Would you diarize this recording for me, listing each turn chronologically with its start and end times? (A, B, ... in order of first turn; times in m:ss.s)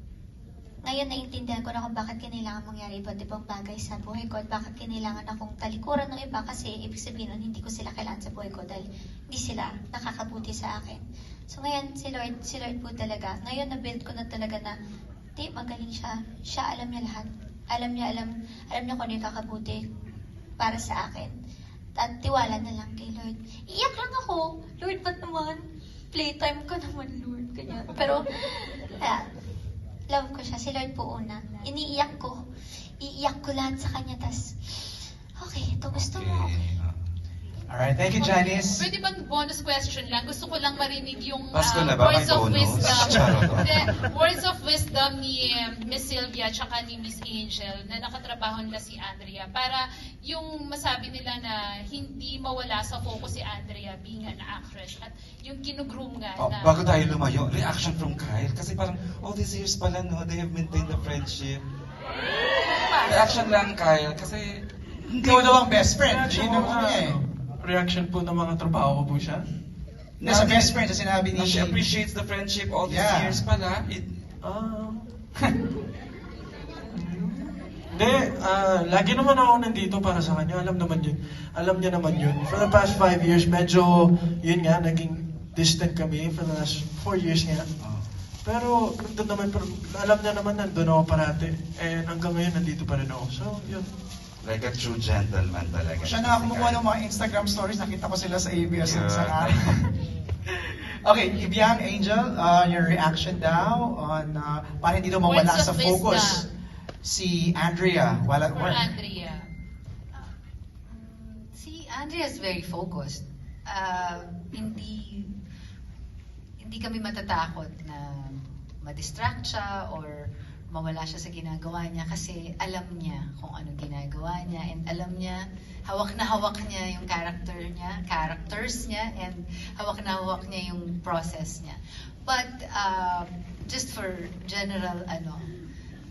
0:00.9-0:14.7 A
0:15.4-0:19.8 A
0:20.6-0:21.3 A
0:22.0-0:25.6 A
0:26.1-0:29.2 A
0:30.1-0:32.4 A
0:33.0-0:36.5 A
0:35.9-0:37.1 B
0:37.7-0:38.9 C
0:38.2-0:56.8 D
0:41.5-0:43.9 B
0:56.4-1:01.6 B
1:02.9-1:05.6 B
1:05.1-1:07.2 C
1:06.0-1:09.4 E
1:10.2-1:14.2 B
1:10.2-1:11.8 C
1:12.8-1:13.4 C
1:14.4-1:15.2 E
1:16.9-1:27.7 E
1:27.8-1:28.1 B
1:28.4-1:33.9 E
1:34.4-1:36.8 B
1:36.0-1:39.8 C
1:38.8-1:39.9 B
1:41.0-1:46.4 C
1:45.2-1:46.5 D
1:47.0-1:48.9 C
1:48.5-1:49.4 D
1:50.9-1:55.3 F
1:56.6-2:00.1 F
2:00.7-2:15.5 F